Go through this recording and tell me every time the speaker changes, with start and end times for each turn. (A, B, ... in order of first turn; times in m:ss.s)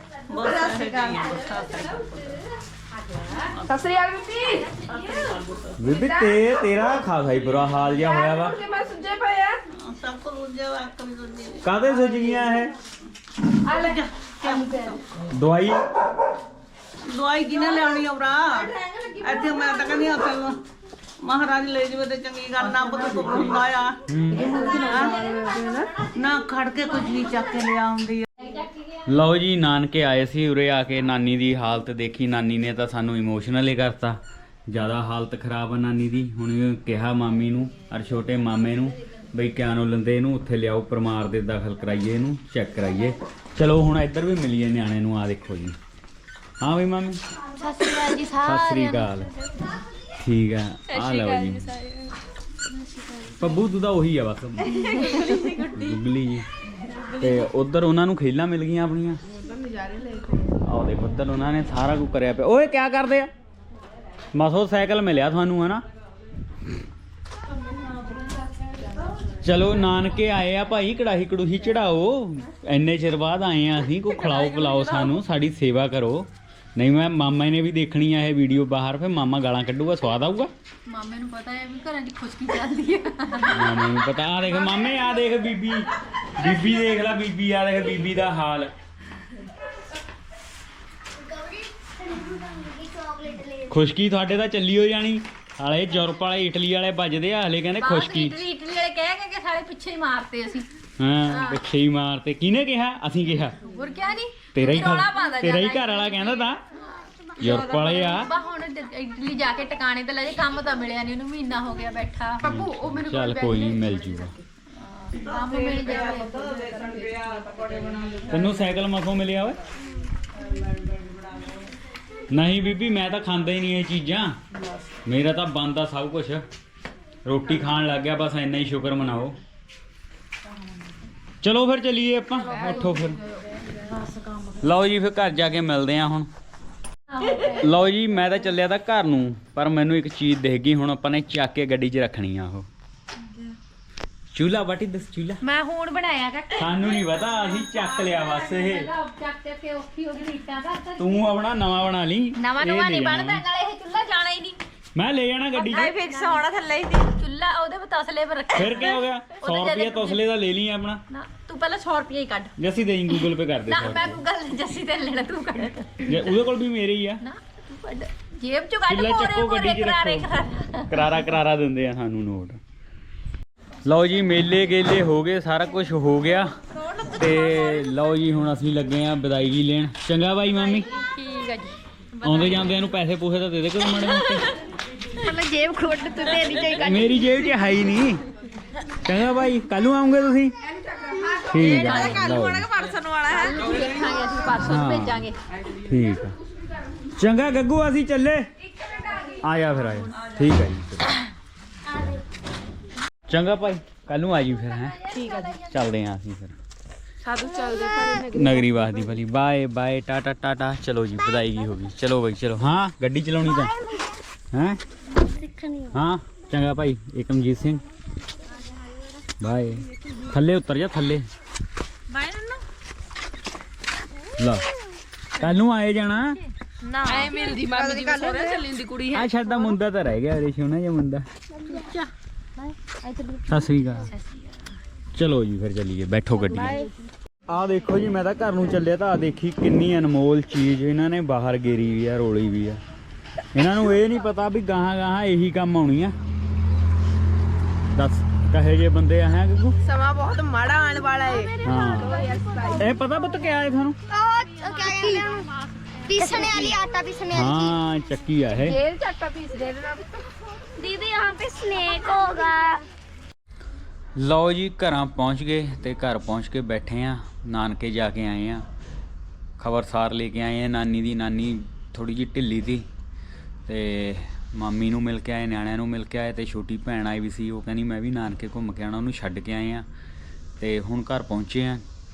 0:00.3-0:01.8 A
0:00.8-0:01.2 B
0:03.6-0:04.7 B
0:05.8-0:08.6 C
0:05.9-0:06.3 B
0:08.2-0:09.6 B
0:09.7-0:11.6 A
0:11.6-0:12.7 C
0:13.7-0:14.9 B
0:13.7-0:15.0 A
0:15.3-0:15.8 C
0:17.0-0:20.6 A
0:18.5-0:19.8 B
0:21.2-0:25.5 A
0:24.1-0:24.5 C
0:24.4-0:25.8 B
0:26.1-0:28.2 A
0:29.1-0:34.2 C
0:34.7-0:45.8 C
0:46.6-0:47.2 C
0:47.6-0:49.2 B
0:48.4-0:49.3 C
0:50.1-0:51.7 C
0:50.9-0:52.1 B
0:53.4-0:56.4 C
0:54.7-0:55.8 B
0:57.2-0:59.2 C
0:59.9-1:00.2 B
1:00.6-1:03.3 C
1:04.3-1:05.8 C
1:09.4-1:20.5 C
1:14.1-1:15.1 B
1:20.9-1:25.0 B
1:23.5-1:28.7 C
1:31.2-1:33.8 D
1:33.7-1:38.4 C
1:37.8-1:40.7 B
1:41.0-1:43.6 C
1:41.3-1:41.6 B
1:43.6-1:46.5 B
1:44.5-1:46.6 C
1:47.4-1:54.0 B
1:47.4-1:48.3 C
1:52.4-1:54.3 C
1:55.1-1:57.4 B
1:55.2-1:58.4 A
1:58.3-1:59.6 C
2:00.5-2:01.5 A
2:02.3-2:04.4 C
2:05.0-2:06.4 C
2:07.2-2:09.4 C
2:11.4-2:13.2 C
2:12.4-2:14.4 B
2:14.6-2:16.3 C
2:17.1-2:17.7 B
2:17.6-2:22.7 C
2:24.3-2:25.4 C
2:25.4-2:31.1 B
2:26.5-2:28.9 C
2:31.0-2:33.4 C
2:32.4-2:34.6 B
2:34.9-2:35.9 C
2:35.6-2:36.4 B
2:35.6-2:37.1 E
2:37.1-2:40.2 B
2:38.5-2:41.0 C
2:41.1-2:42.5 B
2:42.6-2:44.2 C
2:43.1-2:46.1 B
2:46.0-2:47.2 C
2:47.2-2:51.1 B
2:48.9-2:50.2 C
2:50.9-2:52.6 C
2:53.8-2:56.5 C
2:57.0-3:00.9 C
3:00.5-3:02.6 B
3:02.2-3:04.5 C
3:05.1-3:07.5 B
3:06.7-3:08.2 C
3:09.0-3:10.5 C
3:11.5-3:12.7 C
3:11.6-3:12.4 B
3:11.6-3:13.6 E
3:13.3-3:15.3 B
3:14.6-3:15.2 C
3:15.8-3:16.3 C
3:17.1-3:18.5 C
3:18.8-3:19.4 B
3:19.4-3:21.1 C
3:21.9-3:22.2 C
3:23.3-3:25.0 C
3:25.1-3:25.7 B
3:25.7-3:26.5 C
3:27.2-3:28.6 B
3:27.4-3:28.5 E
3:28.3-3:33.7 C
3:33.6-3:34.0 D
3:34.5-3:34.8 C
3:35.3-3:35.8 D
3:35.9-3:37.8 C
3:39.4-3:41.2 C
3:44.4-3:44.6 C
3:45.4-3:46.4 C
3:46.9-3:49.6 B
3:47.0-3:48.6 E
3:49.1-3:51.2 C
3:51.7-3:52.1 B
3:53.0-3:54.5 B
3:53.5-3:54.1 C
3:55.1-3:56.8 C
3:56.5-3:56.8 B
3:57.5-4:02.8 C
4:03.5-4:06.1 C
4:07.9-4:09.8 C
4:09.9-4:12.8 B
4:09.9-4:11.5 E
4:11.6-4:14.0 C
4:12.2-4:12.8 E
4:14.1-4:15.5 D
4:14.5-4:16.8 B
4:16.1-4:17.8 D
4:17.3-4:18.8 C
4:18.6-4:20.1 B
4:20.8-4:22.3 B
4:21.7-4:22.8 D
4:24.2-4:28.6 C
4:29.6-4:32.8 C
4:33.7-4:39.8 C
4:40.6-4:41.8 C